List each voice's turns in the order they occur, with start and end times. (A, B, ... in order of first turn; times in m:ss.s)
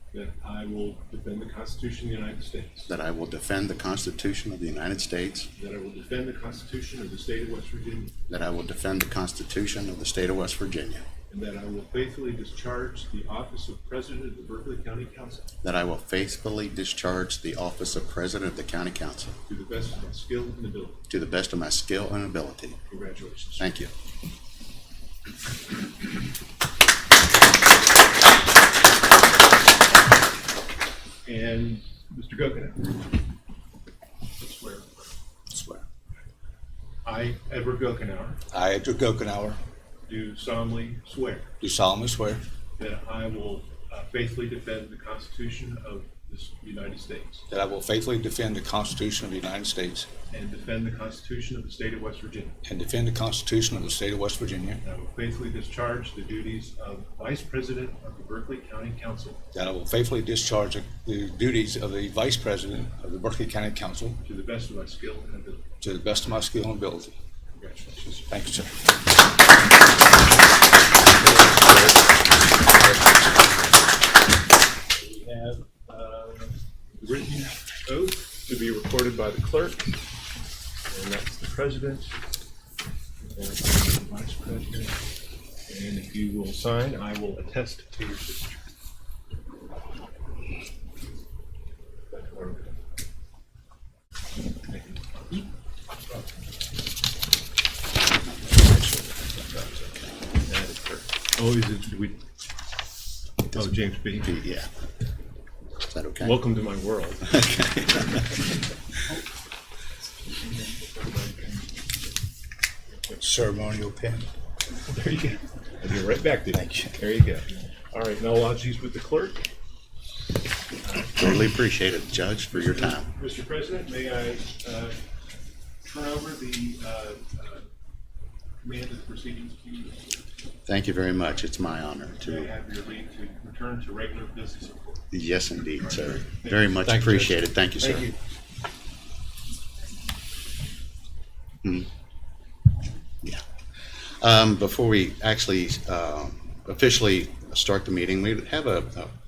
0:00.1-0:02.9 A
0:02.9-0:05.5 B
0:05.6-0:08.1 A
0:08.3-0:11.0 B
0:11.3-0:15.5 A
0:15.6-0:19.4 B
0:19.5-0:21.0 A
0:21.1-0:22.8 B
0:22.9-0:23.7 A
0:23.6-0:23.9 B
0:31.2-0:33.1 A
0:34.4-0:35.2 A
0:35.5-0:35.8 C
0:37.0-0:38.4 A
0:38.5-0:39.6 C
0:40.1-0:41.5 A
0:41.6-0:42.4 C
0:42.8-0:47.4 A
0:47.5-0:50.1 C
0:50.3-0:52.6 A
0:52.6-0:54.8 C
0:54.8-0:59.4 A
0:59.5-1:04.2 C
1:04.2-1:05.6 A
1:05.8-1:07.2 C
1:07.6-1:08.2 A
1:08.3-1:08.8 C
1:11.3-1:11.9 C
1:14.9-1:20.0 A
1:20.9-1:22.2 A
1:23.3-1:25.0 A
1:25.7-1:28.7 A
1:32.1-1:32.8 A
1:34.7-1:35.5 A
1:38.5-1:39.9 A
1:40.4-1:42.2 A
1:43.5-1:44.4 A
1:43.5-1:44.7 B
1:45.9-1:46.4 B
1:46.2-1:47.4 A
1:47.3-1:48.3 B
1:50.4-1:51.7 A
1:53.1-1:54.3 C
1:54.8-1:59.5 A
1:56.5-1:56.9 C
2:00.8-2:01.3 A
2:01.2-2:03.1 B
2:02.5-2:05.0 A
2:05.8-2:07.7 A
2:08.6-2:10.2 A
2:10.7-2:12.5 B
2:12.2-2:15.1 A
2:15.1-2:18.1 B
2:15.9-2:17.3 A
2:24.2-2:29.2 B